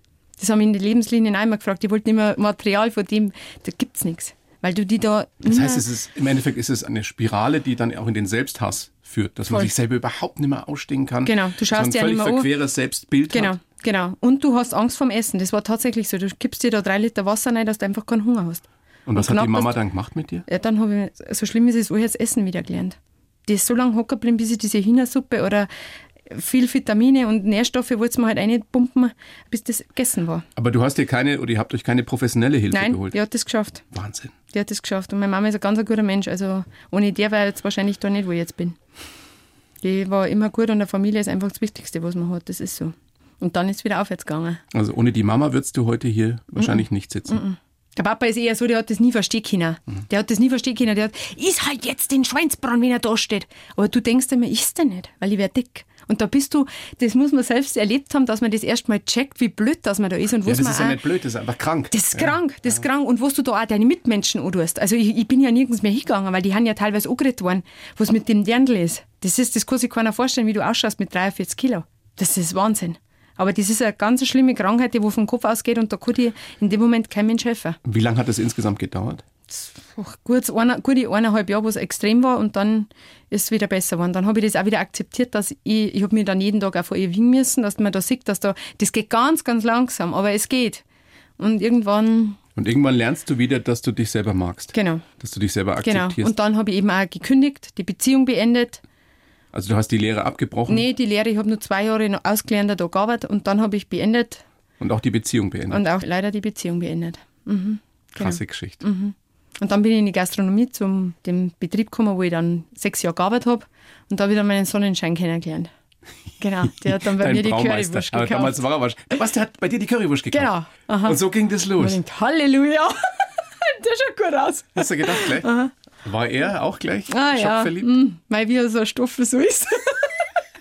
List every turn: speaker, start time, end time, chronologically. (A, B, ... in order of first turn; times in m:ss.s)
0:00.4-0:05.8 A
0:05.4-0:13.5 B
0:11.2-0:12.5 A
0:13.3-0:18.6 A
0:19.0-0:20.4 B
0:19.1-0:19.7 A
0:20.4-0:25.7 A
0:26.3-0:30.4 A
0:30.6-0:33.2 B
0:32.7-0:33.8 A
0:33.9-0:34.3 B
0:34.5-0:38.8 A
0:39.8-0:44.6 A
0:44.7-0:47.4 B
0:46.6-1:01.0 A
1:00.4-1:02.4 B
1:01.9-1:17.8 A
1:17.8-1:19.2 B
1:19.5-1:30.8 A
1:31.4-1:32.4 A
1:32.6-1:36.3 B
1:34.7-1:35.0 A
1:35.8-1:38.8 A
1:39.5-1:40.8 B
1:40.7-1:44.4 A
1:44.8-1:45.8 B
1:45.7-1:55.7 A
1:48.2-1:48.8 B
1:56.4-1:58.6 A
1:56.8-2:00.5 B
2:00.3-2:05.7 A
2:01.0-2:02.0 B
2:04.8-2:05.5 B
2:06.0-2:07.9 B
2:07.1-2:10.2 A